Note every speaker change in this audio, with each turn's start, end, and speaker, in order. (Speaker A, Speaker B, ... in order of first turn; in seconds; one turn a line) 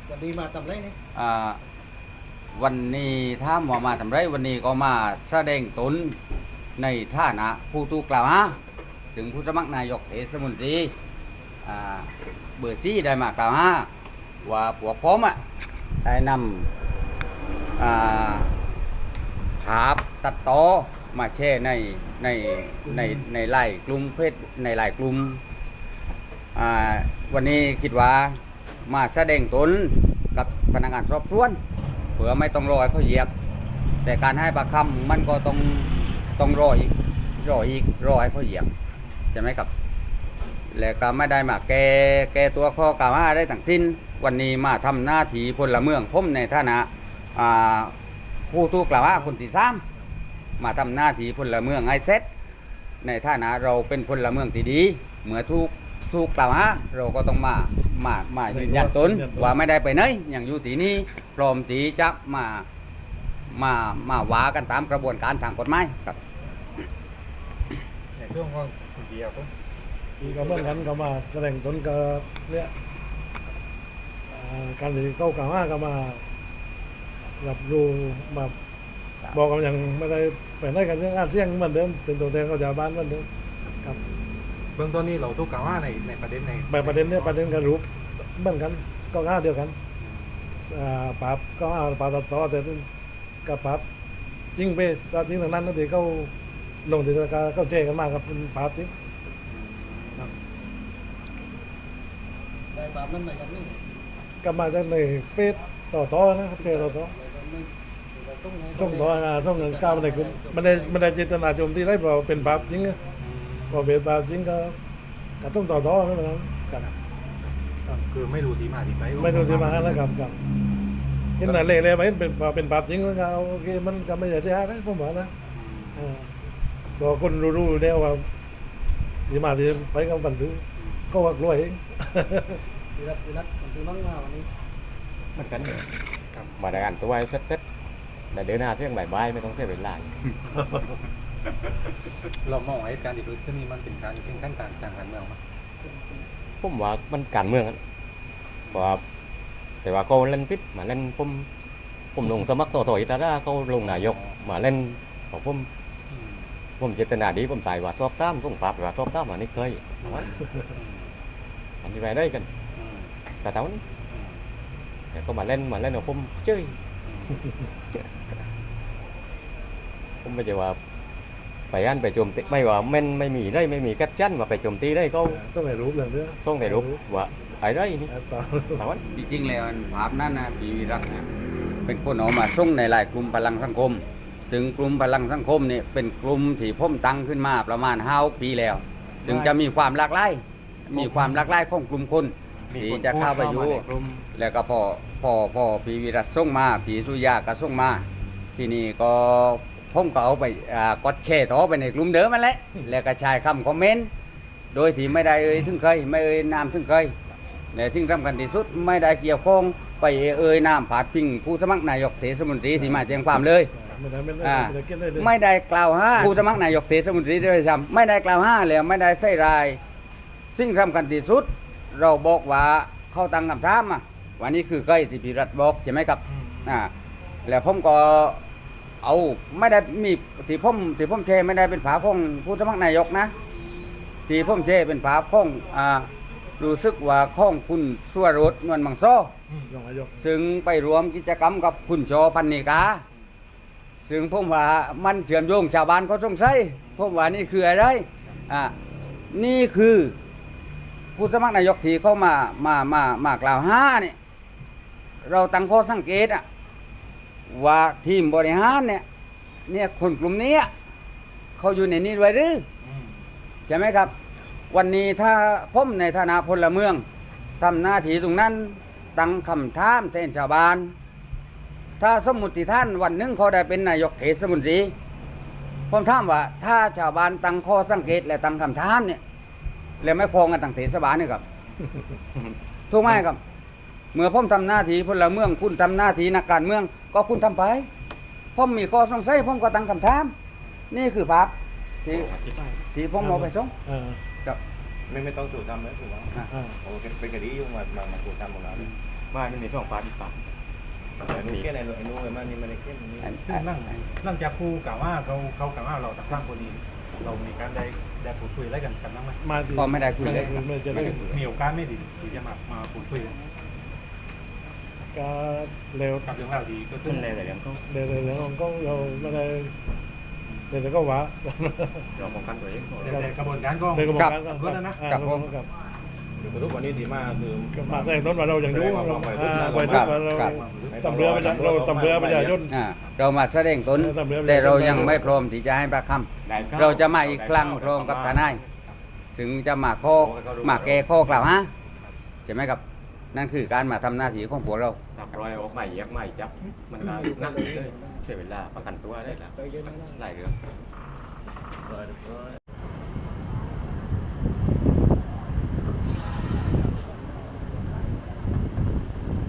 Speaker A: 0.1-0.9
Speaker B: 1.1-1.6
Speaker B: 2.5-6.1
Speaker B: 6.8-8.6
Speaker B: 9.1-10.9
Speaker B: 11.6-13.9
Speaker B: 14.4-15.4
Speaker B: 16.0-16.7
Speaker B: 17.8-18.5
Speaker B: 19.6-25.4
Speaker B: 26.5-31.6
Speaker B: 32.2-33.3
Speaker B: 34.0-38.7
Speaker B: 39.3-39.7
Speaker B: 40.7-47.9
Speaker B: 48.5-49.8
Speaker B: 50.6-52.2
Speaker B: 53.0-62.6
Speaker C: 58.5-59.5
Speaker B: 63.5-66.2
Speaker D: 68.2-69.5
Speaker C: 70.2-72.7
Speaker C: 74.3-76.2
Speaker C: 77.4-78.5
Speaker C: 79.3-83.3
Speaker D: 84.8-87.2
Speaker C: 86.7-89.7
Speaker C: 90.7-92.9
Speaker C: 93.4-93.8
Speaker C: 94.5-96.3
Speaker C: 96.8-98.9
Speaker D: 99.5-100.3
Speaker A: 102.7-103.8
Speaker C: 104.4-107.1
Speaker A: 106.7-111.0
Speaker C: 108.7-113.0
Speaker D: 112.5-113.9
Speaker C: 113.7-114.8
Speaker C: 115.4-116.8
Speaker D: 117.9-120.0
Speaker C: 119.2-120.4
Speaker C: 121.4-125.3
Speaker D: 125.6-126.1
Speaker C: 126.0-126.3
Speaker C: 127.0-128.3
Speaker C: 129.3-132.6
Speaker A: 133.0-134.5
Speaker E: 135.3-135.9
Speaker E: 136.6-137.6
Speaker E: 138.3-140.1
Speaker D: 142.4-145.4
Speaker E: 146.6-147.8
Speaker E: 148.7-149.0
Speaker E: 149.8-151.5
Speaker E: 152.1-155.7
Speaker D: 153.8-154.3
Speaker D: 156.1-156.4
Speaker E: 156.8-160.3
Speaker D: 160.0-161.0
Speaker E: 161.8-162.5
Speaker D: 162.8-163.1
Speaker E: 163.4-163.8
Speaker E: 165.1-166.8
Speaker D: 167.1-167.4
Speaker E: 170.2-170.8
Speaker E: 171.7-175.4
Speaker C: 175.2-177.0
Speaker E: 176.4-178.1
Speaker C: 178.1-178.8
Speaker E: 178.8-179.0
Speaker B: 179.1-181.2
Speaker B: 181.8-198.0
Speaker E: 189.2-189.5
Speaker D: 190.9-191.3
Speaker D: 192.7-194.0
Speaker E: 192.8-194.2
Speaker B: 198.6-204.1
Speaker B: 204.7-207.1
Speaker B: 207.7-213.7
Speaker C: 213.7-215.3
Speaker B: 214.4-219.8
Speaker B: 220.5-226.9
Speaker D: 226.3-226.6
Speaker B: 227.4-228.4
Speaker B: 229.0-233.3
Speaker B: 234.3-239.3
Speaker C: 239.7-240.2
Speaker B: 240.2-243.0
Speaker B: 244.1-248.7
Speaker D: 246.8-247.2
Speaker B: 249.3-250.1
Speaker B: 251.2-254.2
Speaker B: 255.2-256.4
Speaker B: 257.5-259.0
Speaker B: 259.7-260.7
Speaker B: 261.6-262.6
Speaker D: 262.8-263.2
Speaker B: 263.7-264.1
Speaker B: 264.7-267.0
Speaker B: 267.6-270.9
Speaker B: 272.0-274.9
Speaker B: 275.9-279.2
Speaker B: 280.0-281.4
Speaker B: 282.9-283.4
Speaker B: 284.1-287.9
Speaker B: 288.6-290.3
Speaker B: 290.9-291.5
Speaker E: 292.1-292.8
Speaker B: 292.9-293.7
Speaker C: 293.2-294.2
Speaker F: 295.1-298.9
Speaker C: 296.5-296.8
Speaker E: 299.3-300.4
Speaker F: 301.2-303.4
Speaker E: 301.3-301.7
Speaker B: 303.2-304.0
Speaker D: 303.4-309.4
Speaker C: 309.4-311.3
Speaker B: 309.7-310.6
Speaker E: 310.9-311.3
Speaker D: 311.0-313.4
Speaker C: 315.1-316.3
Speaker D: 316.2-317.3
Speaker E: 317.0-317.8
Speaker C: 317.9-319.7
Speaker C: 320.7-322.1
Speaker E: 322.2-323.2
Speaker D: 322.2-322.4
Speaker D: 323.0-325.0
Speaker C: 323.9-325.7
Speaker B: 325.1-325.5
Speaker F: 326.4-332.6
Speaker C: 327.7-332.7
Speaker B: 329.9-330.6
Speaker D: 330.4-331.0
Speaker B: 332.7-338.6
Speaker C: 333.9-335.3
Speaker E: 336.4-338.6
Speaker B: 339.3-341.7
Speaker E: 340.1-341.2
Speaker B: 342.4-342.8
Speaker B: 343.3-345.0
Speaker E: 345.1-350.5
Speaker A: 347.2-348.1
Speaker A: 349.6-350.0